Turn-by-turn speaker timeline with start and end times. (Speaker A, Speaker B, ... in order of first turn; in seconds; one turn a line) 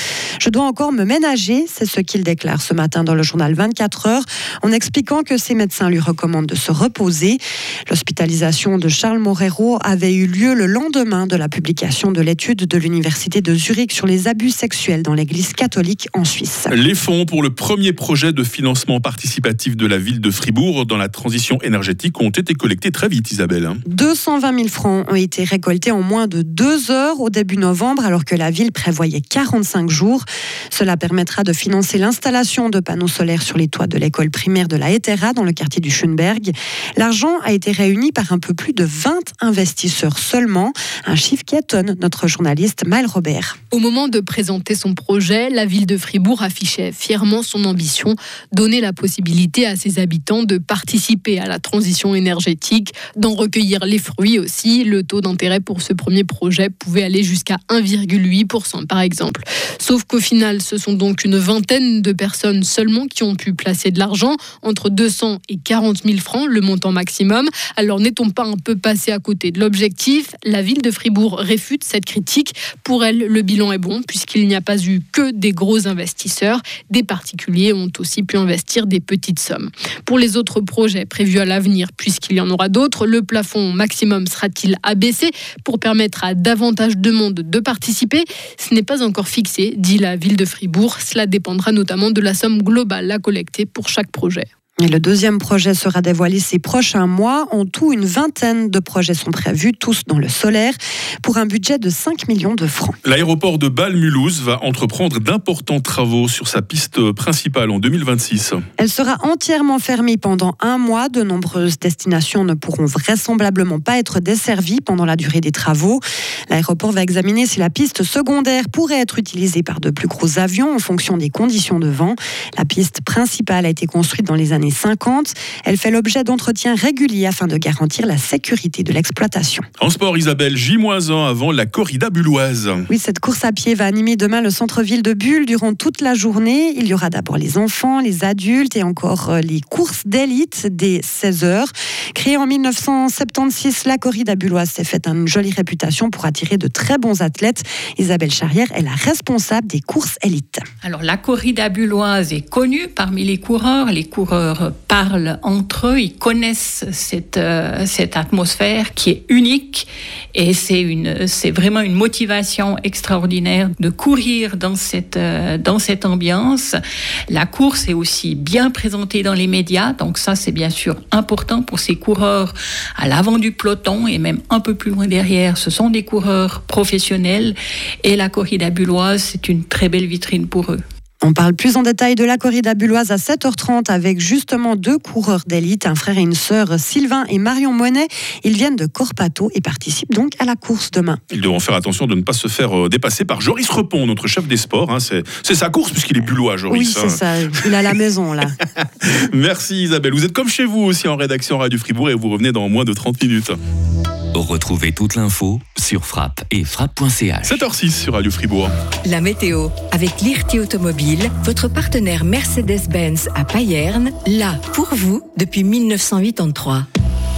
Speaker A: 0.4-16.7
Speaker B: 16.7-23.8
Speaker A: 23.9-43.6
Speaker C: 43.7-94.5
Speaker A: 94.8-103.0
Speaker B: 103.0-108.6
Speaker A: 108.8-129.7
Speaker B: 129.8-132.8
Speaker A: 132.9-150.6
Speaker D: 150.8-166.8
Speaker D: 167.3-180.8
Speaker A: 181.2-191.2
Speaker B: 191.3-197.2
Speaker A: 196.7-198.5
Speaker B: 199.0-203.6
Speaker E: 204.3-207.7
Speaker B: 207.4-208.7
Speaker F: 209.0-216.8